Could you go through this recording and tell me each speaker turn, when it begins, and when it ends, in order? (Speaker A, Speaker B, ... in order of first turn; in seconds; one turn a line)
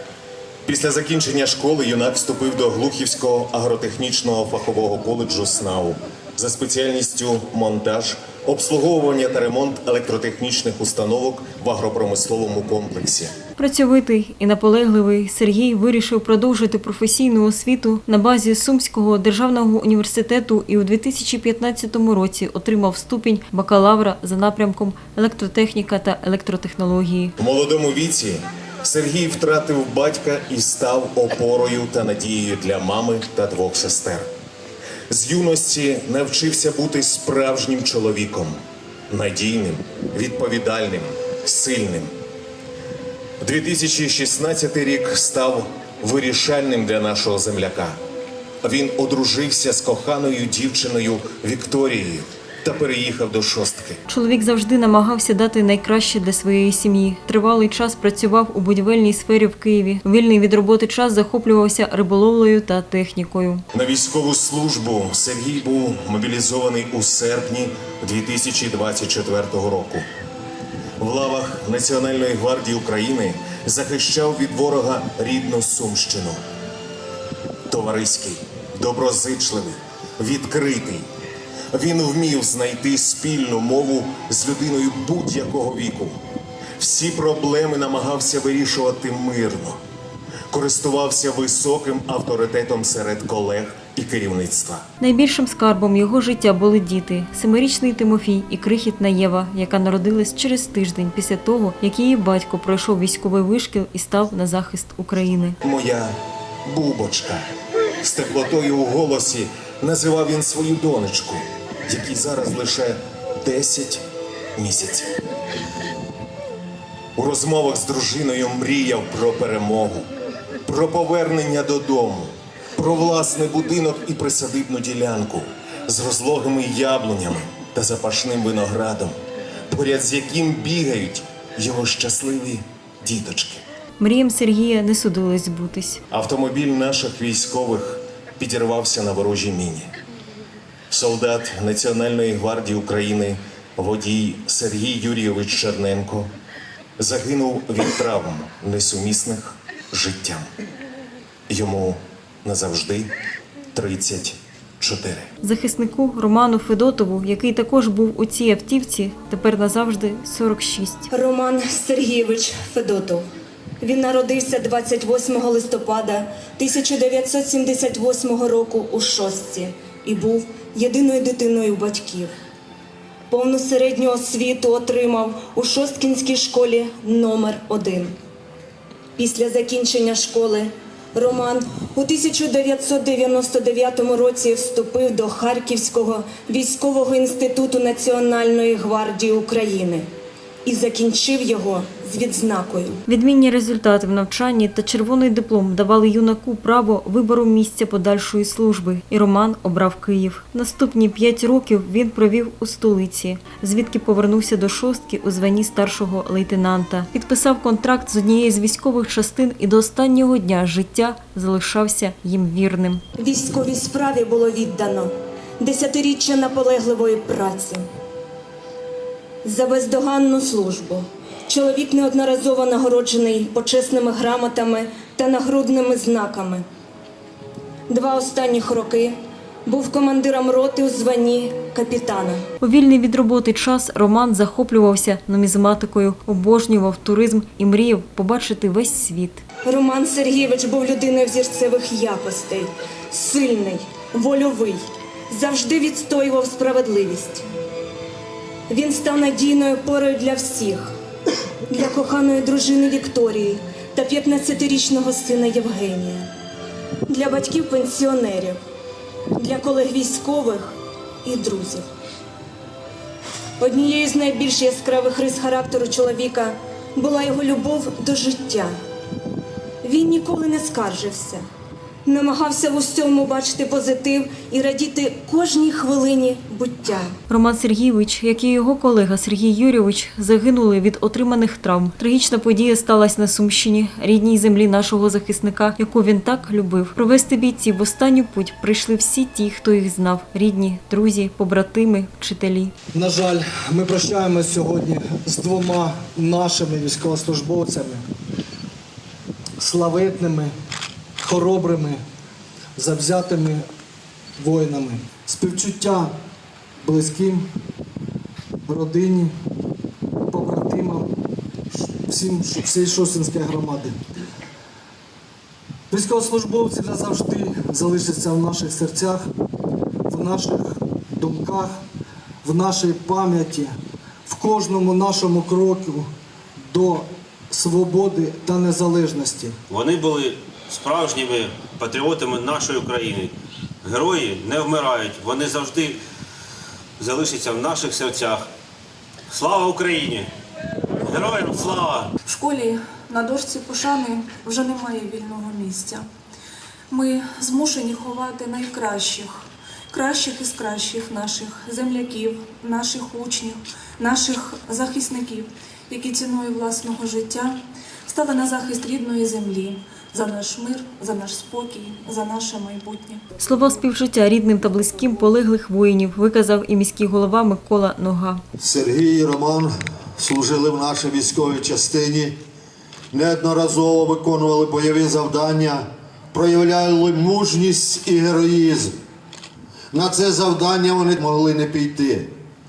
Speaker A: 0.7-13.3
Speaker B: 13.6-27.3
Speaker A: 27.4-34.3
Speaker A: 35.1-38.6
Speaker A: 39.1-42.1
Speaker A: 43.4-48.0
Speaker A: 48.6-54.0
Speaker B: 54.1-63.6
Speaker A: 63.7-70.1
Speaker A: 71.0-76.4
Speaker A: 77.7-81.1
Speaker A: 81.7-86.2
Speaker A: 86.8-89.8
Speaker A: 90.5-94.8
Speaker B: 95.0-105.6
Speaker A: 105.6-106.1
Speaker A: 106.7-107.5
Speaker A: 108.0-114.0
Speaker A: 114.5-115.2
Speaker A: 117.2-120.1
Speaker A: 120.6-129.1
Speaker A: 129.7-133.6
Speaker B: 134.0-136.0
Speaker A: 136.1-139.9
Speaker A: 140.9-146.3
Speaker A: 147.0-150.5
Speaker A: 151.5-153.1
Speaker A: 153.7-155.3
Speaker B: 155.4-161.1
Speaker C: 161.1-163.2
Speaker C: 163.8-172.3
Speaker C: 173.3-178.2
Speaker C: 179.2-190.1
Speaker C: 190.6-193.0
Speaker B: 193.1-213.0
Speaker C: 213.2-217.9
Speaker C: 219.4-226.6
Speaker C: 227.9-232.4
Speaker B: 232.6-239.4
Speaker C: 239.6-247.4
Speaker C: 248.7-250.9
Speaker C: 251.7-256.3
Speaker C: 257.1-258.6
Speaker C: 259.4-261.8
Speaker C: 263.6-268.8
Speaker C: 269.8-271.4
Speaker C: 272.1-277.1
Speaker B: 277.3-292.7
Speaker D: 292.9-298.0
Speaker D: 299.6-300.5
Speaker D: 301.2-302.0
Speaker D: 302.8-303.6
Speaker D: 304.4-306.1
Speaker D: 306.9-307.4
Speaker D: 308.7-309.3
Speaker D: 310.3-311.1
Speaker D: 312.1-313.9
Speaker D: 315.9-319.2
Speaker D: 320.1-320.6
Speaker D: 321.2-321.7
Speaker D: 322.4-323.7
Speaker D: 324.3-326.1
Speaker D: 326.6-329.5
Speaker E: 329.7-336.0
Speaker E: 337.0-338.5
Speaker E: 339.3-340.3
Speaker E: 341.0-342.1
Speaker F: 342.2-346.1
Speaker F: 346.9-363.2
Speaker B: 363.4-368.4
Speaker G: 368.6-372.4
Speaker G: 373.1-379.0
Speaker G: 379.9-382.3